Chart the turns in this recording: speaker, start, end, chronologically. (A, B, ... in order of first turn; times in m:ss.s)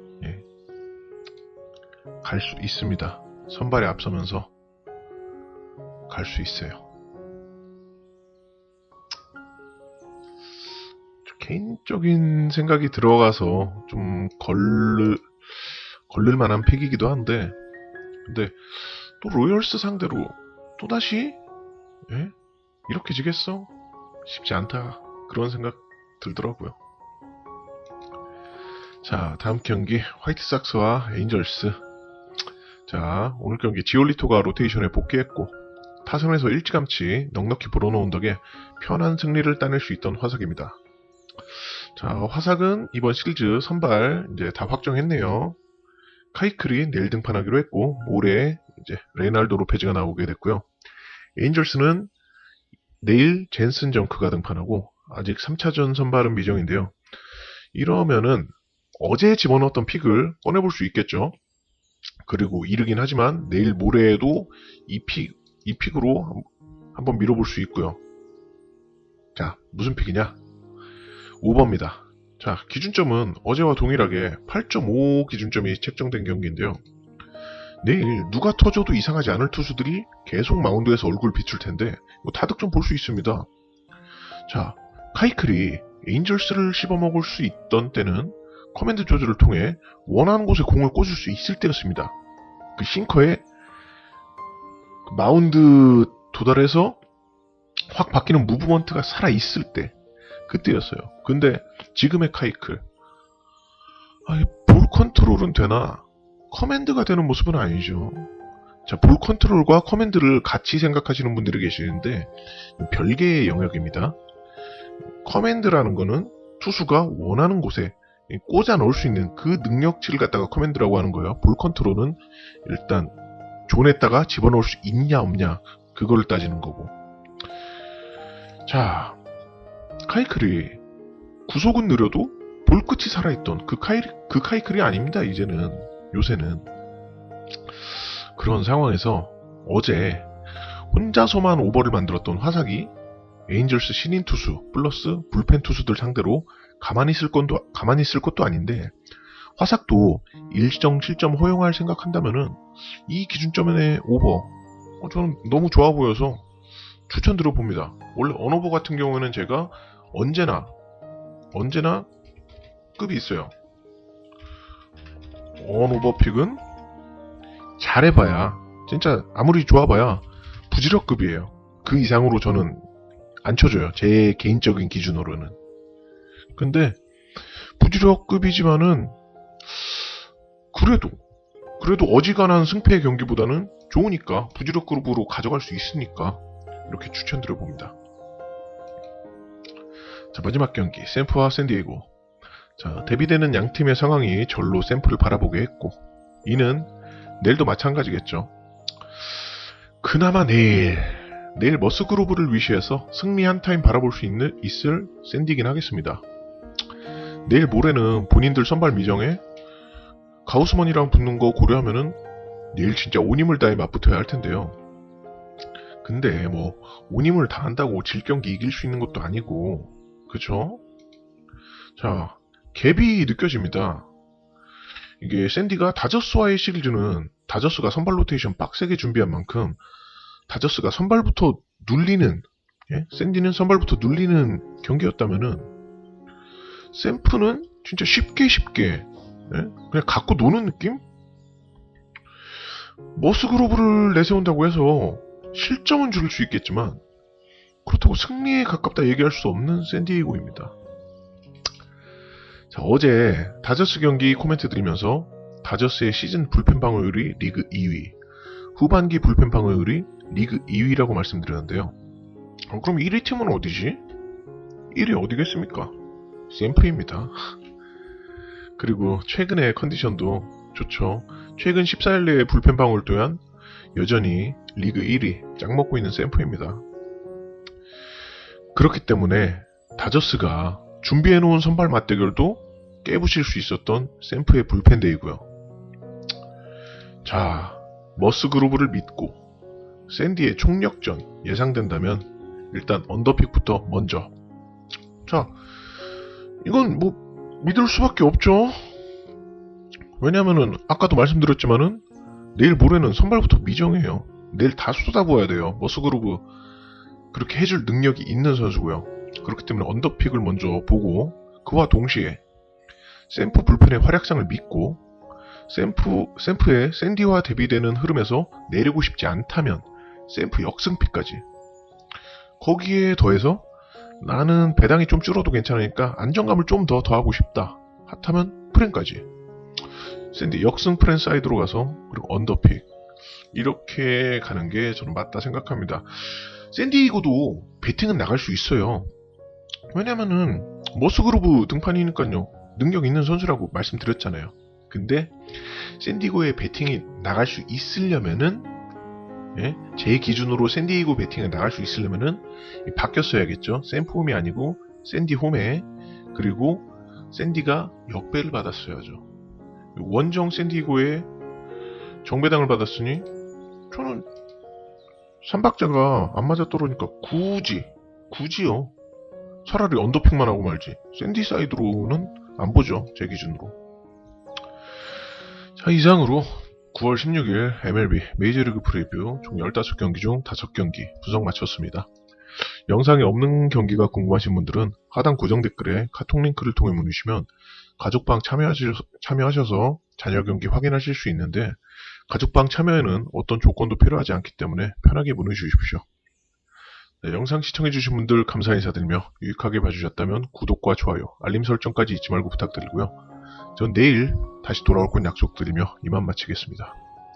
0:00.2-0:00.4 A
0:02.2-0:04.5 A
0:06.1-0:06.8 A
0:11.2-0:15.3 A
0:16.1-0:17.6 A
0:18.2-0:21.4 A
0:22.1-0:22.3 A
0:22.9-0:23.7 A
0:24.2-0:26.8 A
0:29.0-0:31.8 A
0:32.9-0:40.8 A
0:41.9-0:45.6 A
0:46.3-0:50.7 A
0:51.4-0:52.1 A
0:53.0-0:57.0 A
0:57.7-1:01.3 A
1:02.2-1:08.0 A
1:09.3-1:10.4 A
1:11.4-1:16.8 A
1:17.8-1:23.5 A
1:24.5-1:32.1 A
1:32.8-1:33.4 A
1:35.0-1:37.0 A
1:37.8-1:40.0 A
1:40.5-1:42.8 A
1:44.2-1:48.3 A
1:48.8-1:54.2 A
1:55.2-2:03.1 A
2:03.7-2:06.9 A
2:08.6-2:09.2 A
2:10.0-2:10.8 A
2:11.5-2:16.7 A
2:17.8-2:22.9 A
2:23.5-2:29.0 A
2:29.6-2:36.4 A
2:37.1-2:40.7 A
2:41.5-2:42.1 A
2:43.0-2:43.5 A
2:45.6-2:46.6 A
2:47.8-2:52.8 A
2:53.4-2:55.6 A
2:56.6-2:57.0 A
2:57.5-3:00.2 A
3:00.7-3:01.2 A
3:01.8-3:07.9 A
3:10.3-3:12.1 A
3:12.8-3:18.5 A
3:20.0-3:26.2 A
3:27.4-3:29.4 A
3:30.4-3:32.2 A
3:32.7-3:34.8 A
3:36.0-3:40.8 A
3:42.0-3:44.1 A
3:45.2-3:49.8 A
3:50.5-3:55.7 A
3:56.9-4:01.0 A
4:03.1-4:07.0 A
4:07.8-4:10.7 A
4:12.7-4:18.2 A
4:18.7-4:21.9 A
4:22.7-4:24.0 A
4:24.9-4:25.9 A
4:26.5-4:27.5 A
4:28.8-4:33.4 A
4:33.9-4:36.8 A
4:38.7-4:45.4 A
4:47.2-4:49.4 A
4:50.1-4:54.3 A
4:55.2-4:55.6 A
4:56.6-4:59.0 A
5:00.2-5:02.0 A
5:02.5-5:06.4 A
5:07.3-5:12.4 A
5:13.3-5:15.0 A
5:15.7-5:21.4 A
5:22.6-5:23.6 A
5:24.2-5:29.3 A
5:30.3-5:32.9 A
5:33.5-5:39.1 A
5:39.9-5:48.7 A
5:49.5-5:59.2 A
5:59.9-6:01.3 A
6:02.2-6:03.3 A
6:03.9-6:04.3 A
6:05.4-6:08.9 A
6:09.6-6:13.8 A
6:15.8-6:22.1 A
6:22.9-6:36.0 A
6:37.2-6:43.2 A
6:43.8-6:47.0 A